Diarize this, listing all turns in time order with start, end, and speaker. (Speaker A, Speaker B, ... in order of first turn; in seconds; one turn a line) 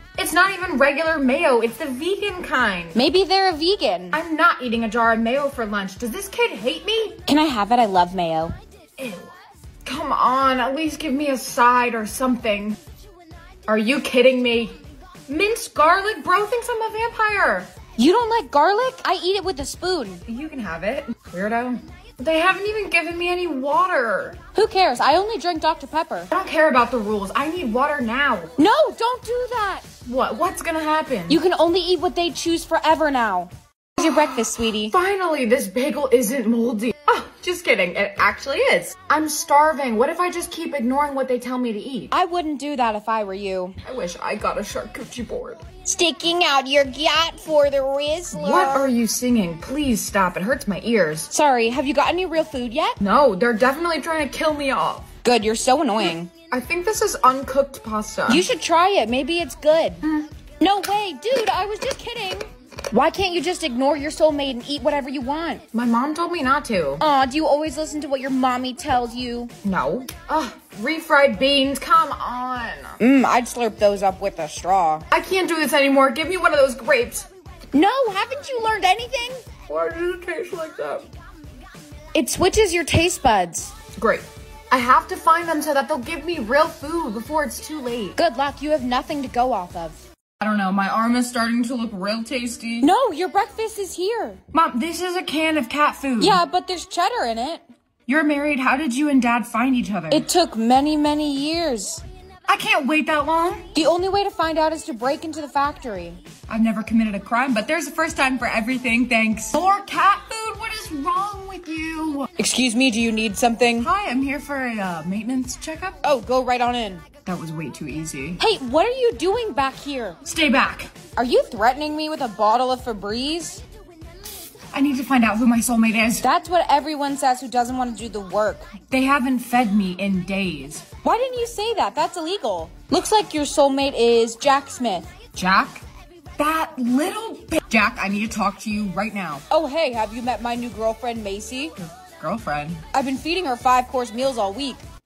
Speaker A: 0.2-3.0
Speaker B: 3.0-4.2
Speaker A: 4.1-7.2
Speaker B: 7.3-8.6
Speaker A: 9.0-9.3
Speaker A: 9.8-12.8
Speaker A: 13.7-17.7
Speaker B: 18.0-20.2
Speaker A: 20.3-24.4
Speaker B: 24.5-26.3
Speaker A: 26.3-28.5
Speaker B: 28.6-29.9
Speaker A: 30.1-31.4
Speaker B: 31.3-35.0
Speaker A: 34.0-42.1
Speaker B: 42.1-43.8
Speaker A: 43.8-45.6
Speaker B: 45.9-48.9
Speaker A: 48.3-51.3
Speaker B: 51.3-53.0
Speaker A: 53.0-55.1
Speaker B: 55.2-56.3
Speaker A: 56.0-58.5
Speaker B: 58.3-60.1
Speaker A: 60.0-60.3
Speaker B: 60.6-65.7
Speaker A: 65.7-67.0
Speaker B: 67.0-69.5
Speaker A: 69.6-73.0
Speaker B: 73.0-75.0
Speaker A: 75.1-77.3
Speaker B: 77.7-79.4
Speaker A: 79.7-81.1
Speaker B: 82.2-83.7
Speaker A: 84.0-88.2
Speaker B: 88.2-90.0
Speaker A: 90.4-92.9
Speaker B: 92.8-94.4
Speaker A: 94.5-96.4
Speaker B: 96.2-97.6
Speaker A: 98.1-100.3
Speaker B: 100.1-102.0
Speaker A: 102.5-103.7
Speaker B: 103.8-106.2
Speaker A: 106.5-112.3
Speaker B: 112.4-113.9
Speaker A: 113.8-116.0
Speaker B: 116.0-117.0
Speaker A: 117.3-118.4
Speaker B: 118.4-120.2
Speaker A: 120.2-120.9
Speaker B: 121.2-123.6
Speaker A: 124.7-126.3
Speaker B: 126.2-128.7
Speaker A: 128.8-130.9
Speaker B: 131.0-135.1
Speaker A: 135.3-135.8
Speaker A: 136.4-139.4
Speaker B: 139.5-141.8
Speaker A: 141.8-142.8
Speaker B: 142.9-144.8